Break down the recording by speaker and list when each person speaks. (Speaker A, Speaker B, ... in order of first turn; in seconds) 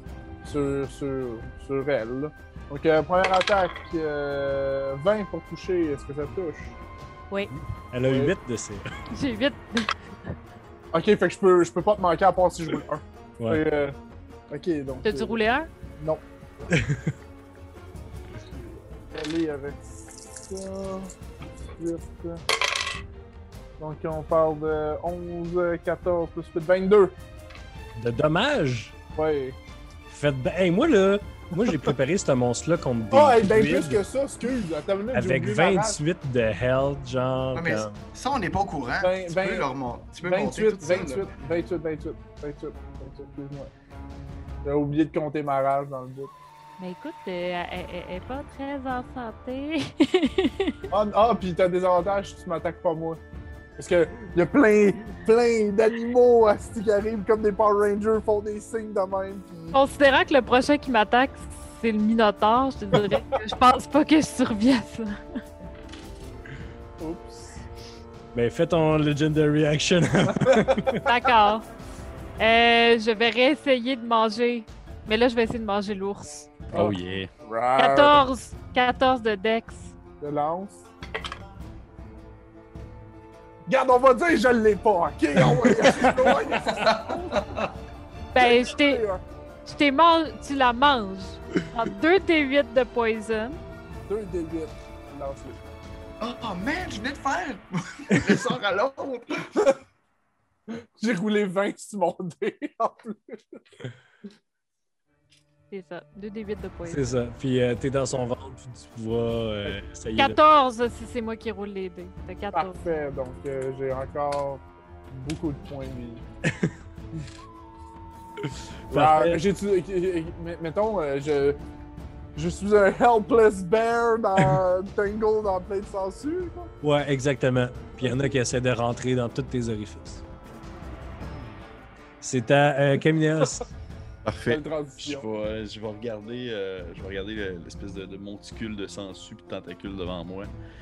Speaker A: 0.4-6.8, 8.0-8.3, 10.9-13.9, 14.5-15.4, 16.0-16.2, 18.4-21.1, 21.7-22.4, 23.8-27.2, 29.1-29.6, 33.1-36.0, 39.0-39.7, 40.2-43.7, 44.6-46.3, 50.9-53.2, 53.8-59.8, 67.0-67.6, 70.4-70.7, 76.7-78.3, 80.2-80.9, 83.7-87.7, 88.4-89.2, 94.1-95.6, 100.7-103.6, 112.5-116.2, 118.9-121.6, 122.3-126.7, 134.5-135.3
Speaker B: 7.9-8.9, 16.7-17.1, 27.9-28.9, 30.1-34.0, 35.1-38.0, 68.3-71.0, 106.8-110.4, 118.9-119.4, 126.8-130.2, 132.2-133.7
Speaker C: 9.1-10.3, 15.0-15.7, 46.8-50.9, 59.7-65.2, 71.0-71.7, 72.4-76.6, 77.8-80.0, 88.3-89.0, 89.6-93.6, 105.7-107.1, 110.2-112.8
Speaker D: 37.5-41.4, 85.9-87.7, 96.2-99.8, 131.2-131.6
Speaker E: 76.7-77.3, 134.2-140.5